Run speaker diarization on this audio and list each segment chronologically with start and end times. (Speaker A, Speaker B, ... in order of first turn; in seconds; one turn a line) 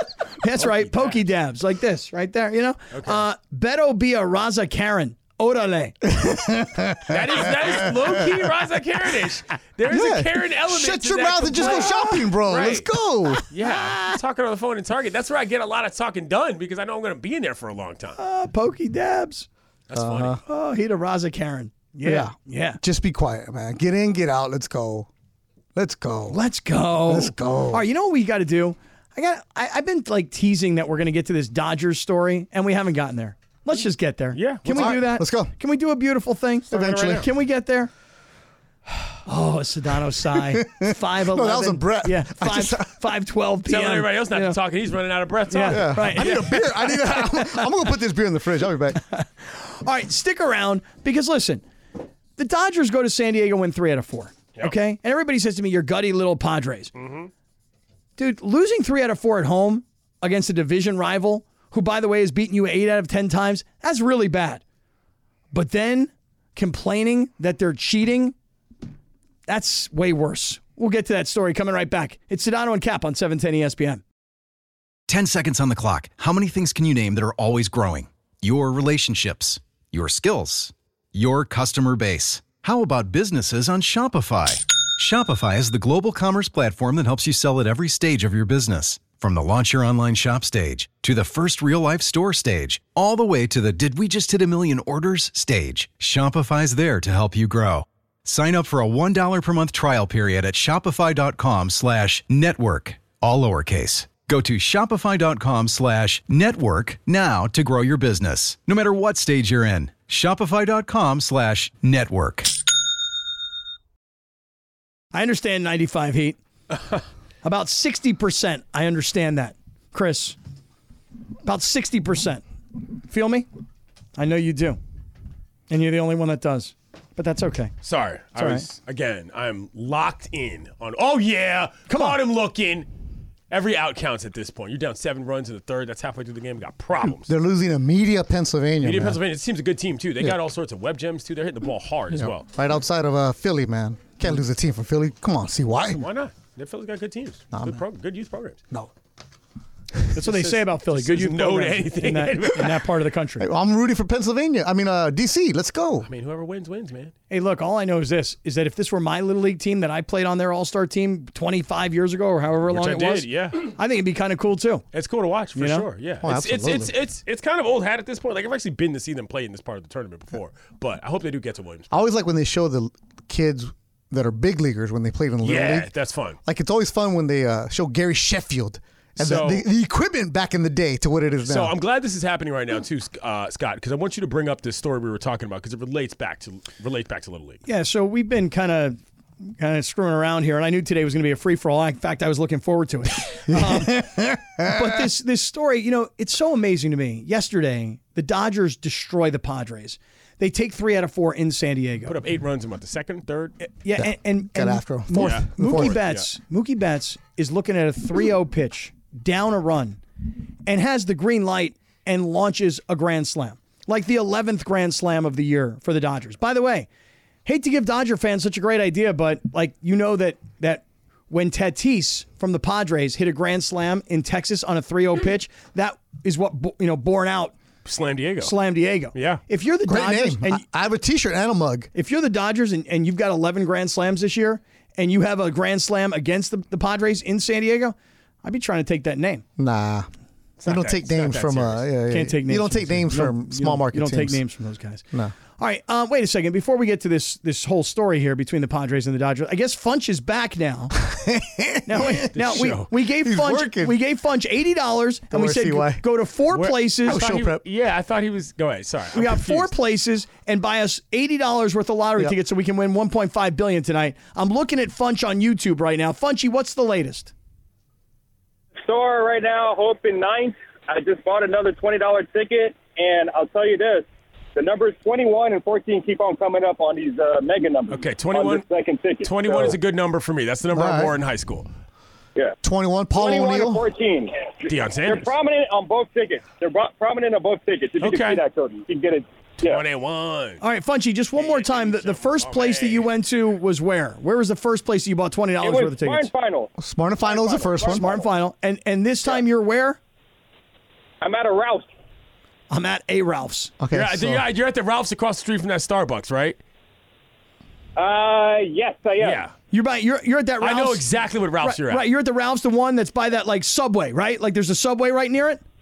Speaker A: 0.4-5.9
Speaker B: 0.6-1.2
Speaker B: 2.9-3.2
Speaker C: 6.0-8.4
Speaker B: 7.1-18.2
Speaker C: 9.9-13.4
Speaker A: 11.6-12.1
Speaker A: 18.2-19.5
Speaker B: 19.9-20.4
Speaker C: 19.9-20.4
Speaker A: 20.4-22.8
Speaker C: 22.0-25.1
Speaker C: 25.7-26.4
Speaker A: 26.3-37.9
Speaker C: 27.0-27.8
Speaker B: 34.3-34.9
Speaker C: 34.7-35.5
Speaker C: 36.7-37.2
Speaker B: 36.7-37.2
Speaker A: 39.2-44.6
Speaker C: 40.3-42.9
Speaker B: 43.6-46.7
Speaker A: 45.5-47.6
Speaker C: 45.7-49.0
Speaker A: 48.9-51.6
Speaker A: 52.4-56.9
Speaker B: 56.9-57.3
Speaker A: 58.2-64.6
Speaker A: 65.5-68.3
Speaker A: 69.5-74.0
Speaker D: 75.1-112.5
Speaker A: 115.1-116.4
Speaker A: 117.4-120.4
Speaker A: 121.4-122.4
Speaker A: 123.0-123.5
Speaker A: 124.2-124.8
Speaker A: 125.7-127.7
Speaker B: 127.8-132.9
Speaker A: 128.3-128.6
Speaker A: 131.9-132.2
Speaker B: 133.5-137.3
Speaker C: 137.0-139.2
Speaker B: 138.8-142.4
Speaker C: 142.1-146.0
Speaker B: 145.9-148.6
Speaker C: 147.5-147.8
Speaker A: 150.1-153.5
Speaker B: 150.2-152.8
Speaker C: 153.4-156.1
Speaker B: 156.1-157.1
Speaker A: 157.3-164.8
Speaker B: 162.7-163.7
Speaker B: 164.9-171.9
Speaker A: 165.5-165.9
Speaker C: 166.2-166.9
Speaker C: 171.9-175.9
Speaker B: 175.4-176.4
Speaker C: 176.4-181.8
Speaker B: 179.2-179.6
Speaker B: 181.4-187.6
Speaker A: 187.7-202.2
Speaker C: 193.5-195.0
Speaker B: 202.1-203.6
Speaker A: 203.6-210.0
Speaker C: 204.0-206.0
Speaker B: 205.2-206.2
Speaker A: 210.7-216.9
Speaker A: 217.4-227.6
Speaker B: 227.8-228.5
Speaker A: 228.4-230.6
Speaker B: 229.1-229.4
Speaker C: 229.8-231.9
Speaker A: 231.9-239.4
Speaker C: 239.6-240.1
Speaker B: 240.6-241.9
Speaker C: 240.6-244.4
Speaker A: 242.1-245.0
Speaker A: 245.6-250.9
Speaker C: 250.9-254.0
Speaker A: 251.8-257.2
Speaker B: 252.3-252.9
Speaker C: 255.3-256.0
Speaker B: 256.5-259.7
Speaker C: 257.1-257.6
Speaker A: 259.1-267.3
Speaker E: 268.9-279.8
Speaker B: 277.9-278.6
Speaker B: 279.2-281.7
Speaker C: 280.7-281.1
Speaker C: 282.6-283.8
Speaker E: 283.1-289.8
Speaker B: 284.6-285.3
Speaker B: 288.0-288.4
Speaker B: 289.6-290.6
Speaker A: 290.6-296.3
Speaker B: 291.3-293.1
Speaker E: 295.6-296.7
Speaker C: 296.8-298.2
Speaker E: 297.2-298.2
Speaker A: 297.8-300.0
Speaker E: 301.2-301.9
Speaker A: 302.7-303.7
Speaker C: 303.8-304.4
Speaker B: 303.9-306.6
Speaker E: 307.9-309.4
Speaker B: 309.2-309.5
Speaker A: 309.7-311.0
Speaker B: 310.6-312.1
Speaker A: 311.6-315.6